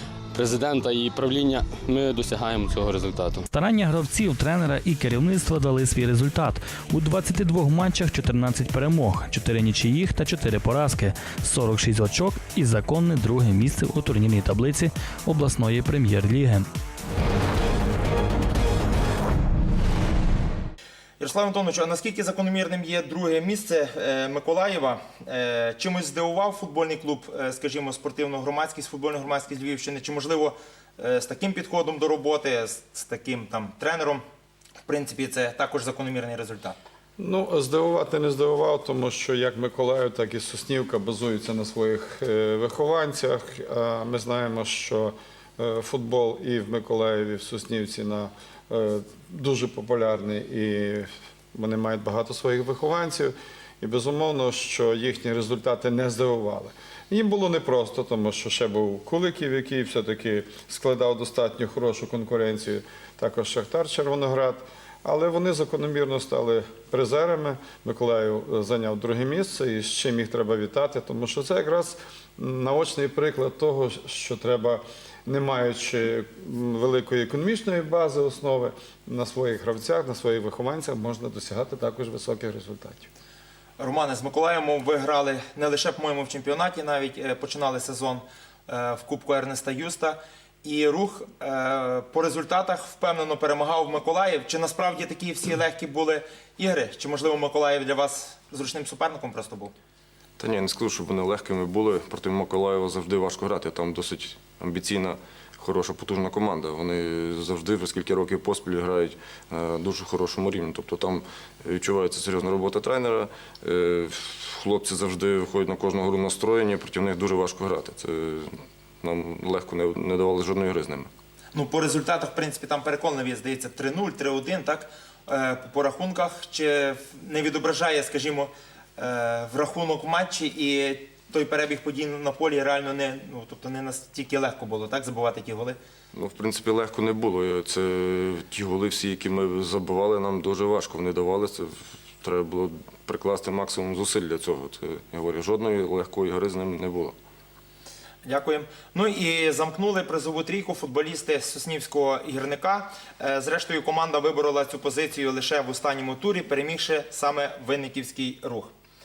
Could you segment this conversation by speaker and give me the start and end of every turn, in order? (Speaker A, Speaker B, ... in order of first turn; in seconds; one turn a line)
Speaker A: 0.3-3.5
Speaker B: 3.5-16.7
Speaker C: 21.2-34.2
Speaker C: 34.9-36.8
Speaker D: 37.2-83.1
Speaker C: 83.8-99.7
Speaker E: 100.4-121.1
Speaker C: 121.5-135.8
Speaker E: 136.1-147.1
Speaker C: 148.2-158.7